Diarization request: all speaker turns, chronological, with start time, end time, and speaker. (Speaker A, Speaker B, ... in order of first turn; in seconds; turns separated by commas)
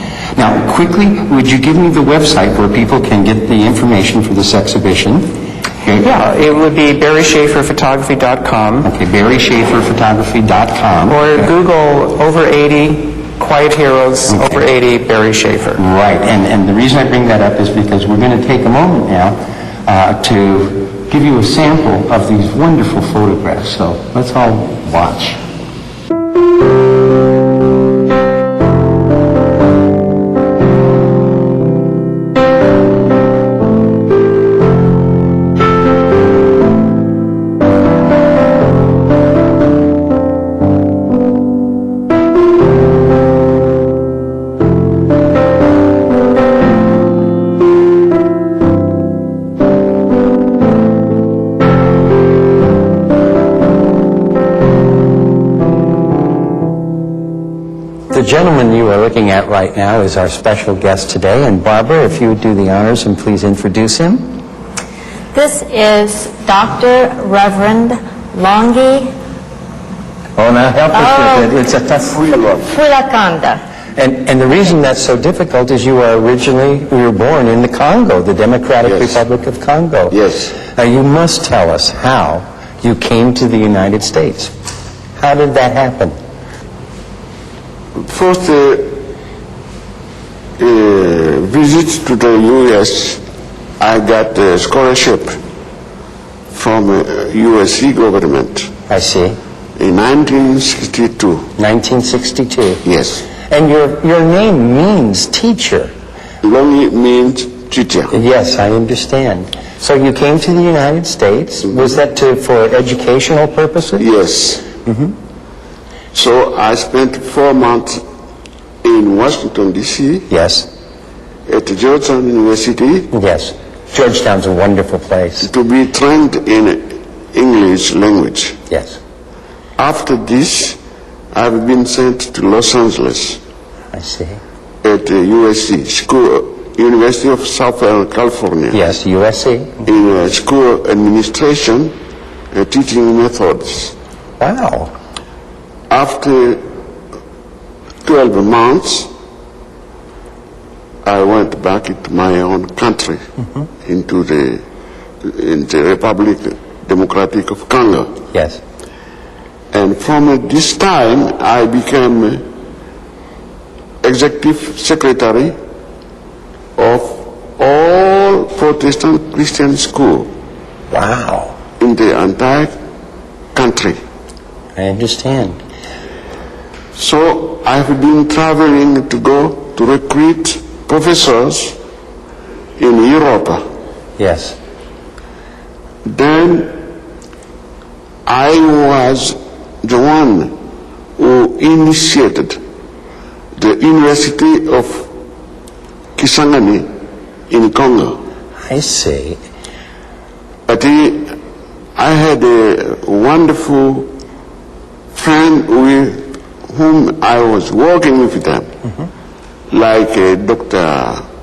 Speaker A: 0.4-6.1, Speaker B: 6.0-8.9, Speaker A: 8.8-11.5, Speaker B: 11.1-15.8, Speaker A: 14.3-14.6, Speaker A: 15.8-25.4, Speaker A: 58.1-64.4, Speaker C: 65.3-69.1, Speaker A: 70.4-72.2, Speaker C: 70.9-71.7, Speaker D: 72.0-72.8, Speaker C: 72.5-73.6, Speaker A: 74.0-84.5, Speaker D: 78.8-79.2, Speaker D: 80.1-80.5, Speaker A: 85.2-86.2, Speaker D: 88.0-89.0, Speaker D: 90.6-93.2, Speaker D: 93.8-95.4, Speaker D: 96.5-98.7, Speaker A: 98.9-99.4, Speaker D: 99.8-101.5, Speaker A: 101.6-102.8, Speaker D: 102.8-103.3, Speaker A: 103.4-105.9, Speaker D: 106.4-108.2, Speaker A: 108.1-114.1, Speaker D: 114.0-114.7, Speaker A: 114.8-115.1, Speaker D: 116.1-118.0, Speaker D: 118.8-120.3, Speaker A: 120.3-120.7, Speaker D: 121.5-123.1, Speaker A: 123.1-125.5, Speaker D: 125.4-128.6, Speaker A: 128.7-129.0, Speaker D: 129.8-130.8, Speaker D: 131.3-133.4, Speaker A: 133.9-134.4, Speaker D: 134.8-138.8, Speaker A: 138.7-139.8, Speaker D: 139.8-141.9, Speaker D: 142.5-143.9, Speaker A: 144.4-144.9, Speaker D: 145.9-146.6, Speaker D: 148.1-149.1, Speaker D: 151.1-153.2, Speaker D: 153.8-154.6, Speaker D: 155.2-158.2, Speaker A: 158.3-158.6, Speaker D: 159.7-162.4, Speaker D: 164.0-165.6, Speaker D: 166.8-170.3, Speaker A: 170.9-171.6, Speaker D: 171.8-172.7, Speaker D: 173.6-174.0, Speaker A: 174.8-175.6, Speaker D: 177.0-181.8, Speaker D: 182.8-183.6, Speaker A: 184.2-184.6, Speaker D: 186.1-186.8, Speaker D: 188.3-190.6, Speaker D: 191.2-192.6, Speaker D: 193.6-195.1, Speaker D: 196.2-196.9, Speaker D: 197.5-198.2, Speaker A: 198.7-199.4, Speaker D: 200.7-201.4, Speaker D: 202.0-204.1, Speaker D: 205.1-208.7, Speaker D: 209.7-211.2